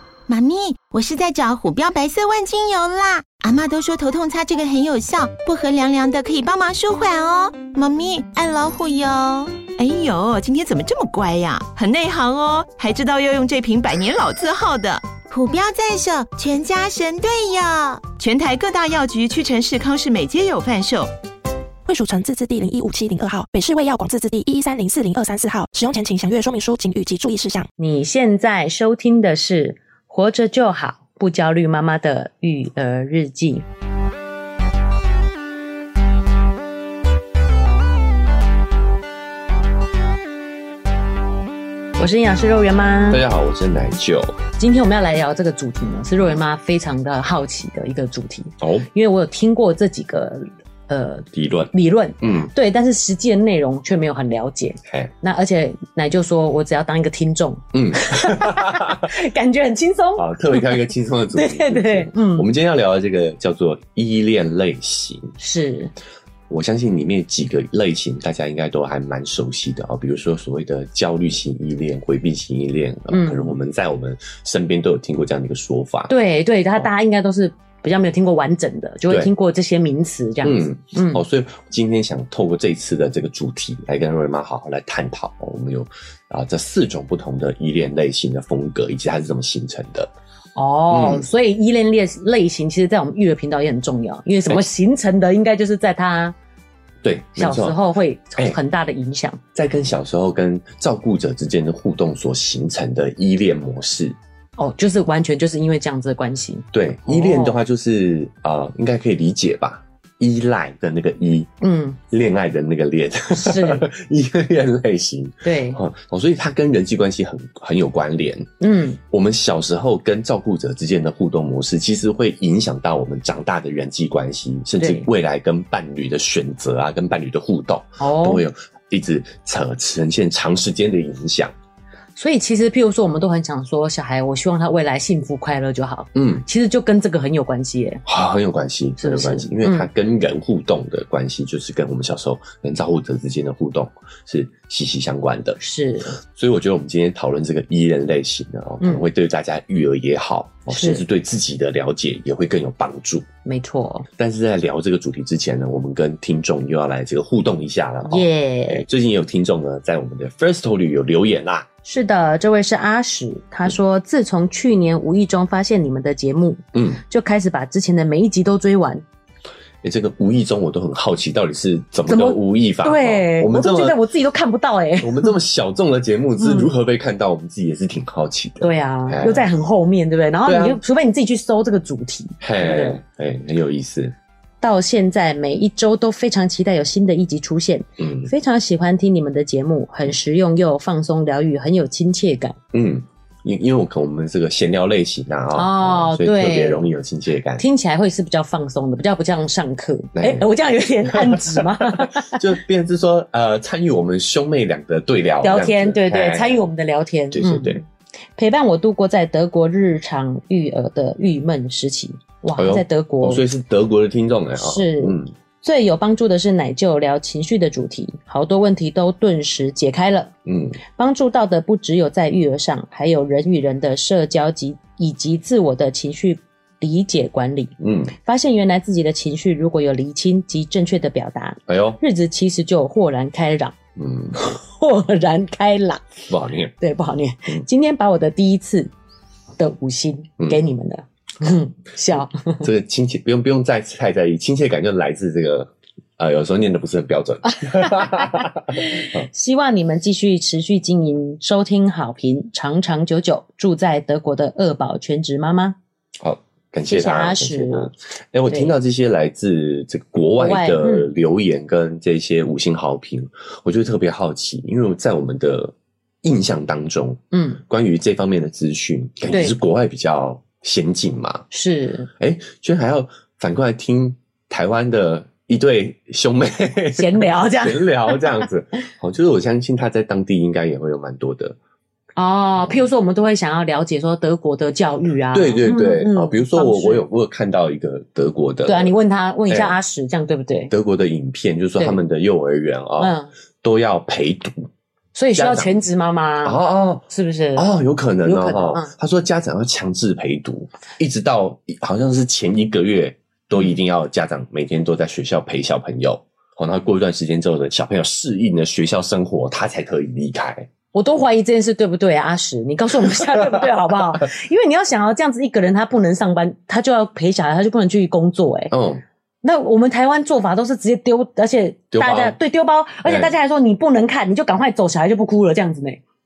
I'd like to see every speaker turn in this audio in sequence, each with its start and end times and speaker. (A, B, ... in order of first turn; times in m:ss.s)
0:00.3-0:09.6 A
0:09.7-0:15.1 B
0:15.3-0:18.1 A
0:18.1-0:21.1 B
0:21.8-0:27.7 C
0:27.8-0:33.6 D
0:42.0-0:43.2 D
0:43.1-0:44.4 E
0:44.6-1:02.4 D
0:48.6-0:48.9 E
0:51.3-0:52.5 E
0:54.9-0:55.1 E
0:57.7-0:59.1 E
1:00.2-1:05.3 E
1:05.4-1:05.9 D
1:06.5-1:16.1 E
1:13.1-1:13.6 D
1:16.1-1:21.2 D
1:20.4-1:30.1 E
1:30.6-1:36.3 D
1:30.9-1:31.2 E
1:37.0-1:37.8 E
1:37.4-1:39.4 D
1:39.5-1:44.2 E
1:44.6-1:47.6 D
1:46.7-1:51.5 E
1:51.6-1:52.0 D
1:52.1-1:58.5 E
1:53.3-1:53.8 D
1:55.4-1:55.8 D
1:58.6-1:59.0 D
1:59.1-2:11.5 E
2:04.8-2:05.1 D
2:08.0-2:08.4 D
2:12.2-2:18.0 D
2:16.1-2:16.4 E
2:18.0-2:25.6 E
2:19.0-2:19.9 D
2:25.6-2:26.2 D
2:26.3-2:33.3 E
2:30.7-2:31.0 D
2:33.4-2:34.1 D
2:34.2-2:41.7 E
2:38.0-2:38.8 D
2:41.8-2:49.0 D
2:46.7-2:47.0 E
2:49.8-2:54.0 E
2:52.1-2:55.4 D
2:55.0-2:59.5 E
2:56.4-2:56.7 D
2:58.6-3:03.0 D
3:00.4-3:00.8 E
3:02.4-3:04.1 E
3:04.6-3:12.6 D
3:08.0-3:08.3 E
3:12.7-3:17.6 E
3:15.5-3:16.9 D
3:17.6-3:22.4 D
3:20.1-3:20.4 E
3:21.0-3:26.6 E
3:25.4-3:27.8 D
3:27.3-3:27.8 E
3:28.4-3:33.4 D
3:32.6-3:35.3 E
3:34.6-3:40.3 D
3:40.4-3:40.8 E
3:40.9-3:53.7 D
3:47.8-3:48.1 E
3:51.7-3:52.0 E
3:54.0-3:54.4 E
3:54.3-3:56.0 D
3:56.3-3:56.7 E
3:56.8-3:58.9 D
3:59.6-4:02.6 D
4:02.6-4:09.2 E
4:07.6-4:15.8 D
4:16.2-4:31.4 E
4:16.8-4:17.9 D
4:20.4-4:21.1 D
4:27.3-4:27.6 D
4:29.3-4:29.5 D
4:31.5-4:32.1 D
4:32.2-4:41.6 E
4:36.9-4:38.5 D
4:42.2-4:47.0 D
4:45.3-4:48.9 E
4:48.6-4:50.7 D
4:49.5-4:49.8 E
4:50.7-4:54.7 E
4:53.0-4:53.3 D
4:55.1-4:57.7 D
4:55.3-4:55.8 E
4:56.4-5:10.7 E
4:58.2-4:58.9 D
5:10.9-5:18.7 D
5:13.0-5:14.1 E
5:18.7-5:19.0 E
5:19.4-5:26.0 D
5:21.9-5:22.4 E
5:23.0-5:23.3 E